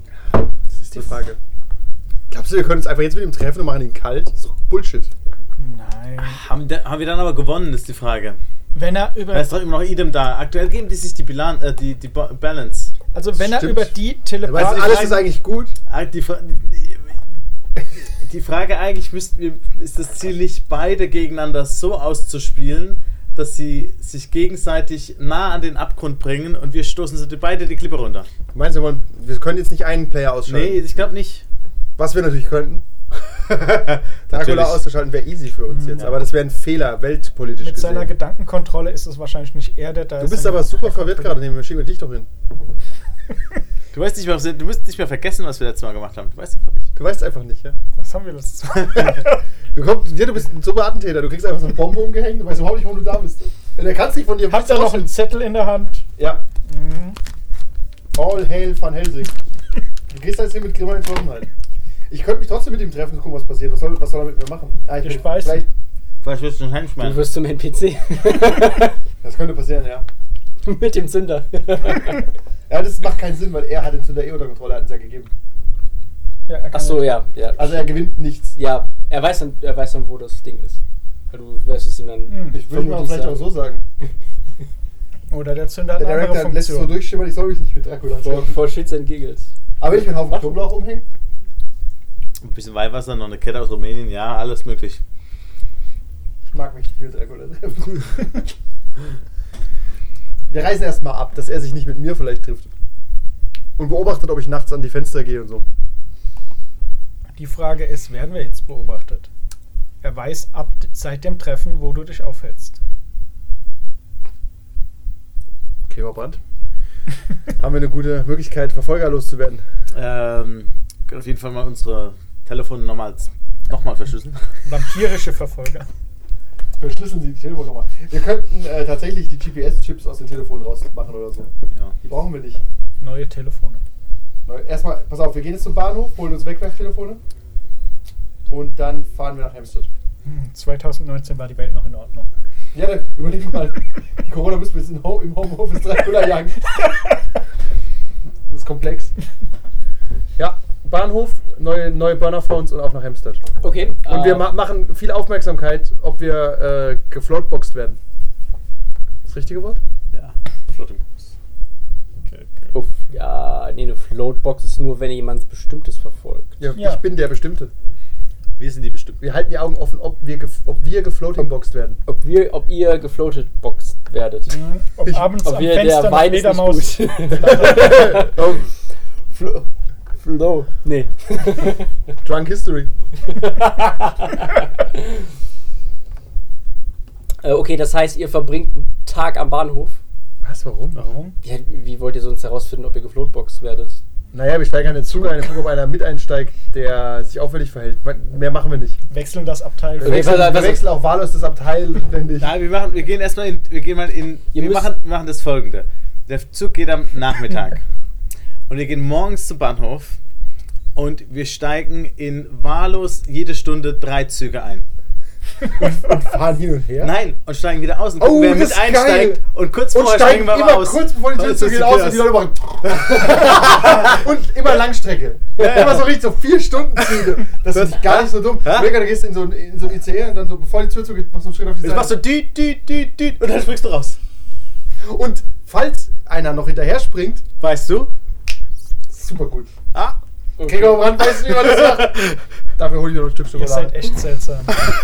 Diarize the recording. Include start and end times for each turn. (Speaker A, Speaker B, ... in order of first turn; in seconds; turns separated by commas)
Speaker A: 0.3-1.4, Speaker A: 2.3-5.1, Speaker B: 5.6-6.4, Speaker C: 6.2-8.4, Speaker B: 8.7-9.6, Speaker C: 9.3-12.9, Speaker B: 13.1-15.3, Speaker A: 13.3-15.7, Speaker C: 14.6-15.0, Speaker C: 15.9-17.1, Speaker C: 17.9-28.3, Speaker A: 28.5-30.8, Speaker C: 30.5-31.4, Speaker A: 32.0-32.8, Speaker A: 33.5-38.1, Speaker C: 33.9-34.8, Speaker B: 35.7-36.1, Speaker B: 37.6-41.4, Speaker A: 40.2-42.3, Speaker C: 43.9-46.8, Speaker A: 46.9-47.8, Speaker B: 48.0-49.4, Speaker A: 48.9-55.1, Speaker B: 54.5-56.1, Speaker A: 56.2-56.4, Speaker B: 56.7-57.2, Speaker A: 58.1-59.3, Speaker A: 60.1-61.5, Speaker A: 62.1-65.7, Speaker B: 65.0-65.6, Speaker C: 66.2-67.2, Speaker D: 67.0-69.0, Speaker A: 69.2-70.0, Speaker D: 70.6-72.2, Speaker A: 72.7-75.3, Speaker B: 76.5-77.1, Speaker D: 76.7-78.0, Speaker A: 77.6-78.5, Speaker D: 78.5-80.8, Speaker D: 81.3-83.5, Speaker B: 82.3-82.6, Speaker A: 82.5-83.8, Speaker B: 85.3-87.0, Speaker A: 86.0-88.6, Speaker D: 88.2-90.6, Speaker A: 89.8-91.0, Speaker C: 92.4-95.0, Speaker A: 96.5-98.4, Speaker A: 100.5-102.7, Speaker A: 103.8-105.7, Speaker B: 107.3-109.3, Speaker B: 110.0-112.8, Speaker A: 115.9-116.4, Speaker A: 117.6-119.6, Speaker C: 119.9-124.5, Speaker B: 124.6-125.9, Speaker A: 126.8-131.5, Speaker A: 132.0-132.6, Speaker B: 133.0-133.8, Speaker A: 134.4-137.2, Speaker A: 138.5-139.9, Speaker B: 140.2-142.3, Speaker A: 142.7-146.8, Speaker A: 148.5-149.1, Speaker A: 150.4-153.4, Speaker D: 153.6-154.5, Speaker A: 154.0-158.0, Speaker A: 159.2-159.8, Speaker C: 160.1-161.3, Speaker B: 162.2-162.8, Speaker D: 162.7-166.6, Speaker A: 166.6-167.7, Speaker B: 166.8-167.0, Speaker C: 168.6-169.2, Speaker A: 169.2-172.0, Speaker D: 172.1-174.5, Speaker B: 174.5-178.1, Speaker D: 175.4-178.7, Speaker A: 177.5-178.5, Speaker D: 179.3-179.7, Speaker D: 180.2-181.9, Speaker A: 182.2-182.9, Speaker D: 183.2-185.0, Speaker D: 187.4-190.0, Speaker A: 190.4-191.0, Speaker B: 191.0-191.3, Speaker D: 191.4-194.0, Speaker A: 194.3-199.0, Speaker B: 199.1-200.6, Speaker A: 200.0-202.5, Speaker D: 200.0-200.9, Speaker C: 202.4-207.8, Speaker D: 204.5-204.9, Speaker C: 208.7-210.2, Speaker C: 210.9-214.8, Speaker A: 215.7-217.1, Speaker C: 217.0-224.1, Speaker A: 218.2-219.4, Speaker A: 219.9-232.2, Speaker C: 225.6-226.2, Speaker C: 227.0-229.0, Speaker C: 231.8-234.2, Speaker A: 235.0-237.4, Speaker C: 237.6-238.1, Speaker A: 239.1-239.7, Speaker D: 240.6-241.0, Speaker A: 240.6-243.9, Speaker C: 241.2-242.4, Speaker B: 243.5-244.8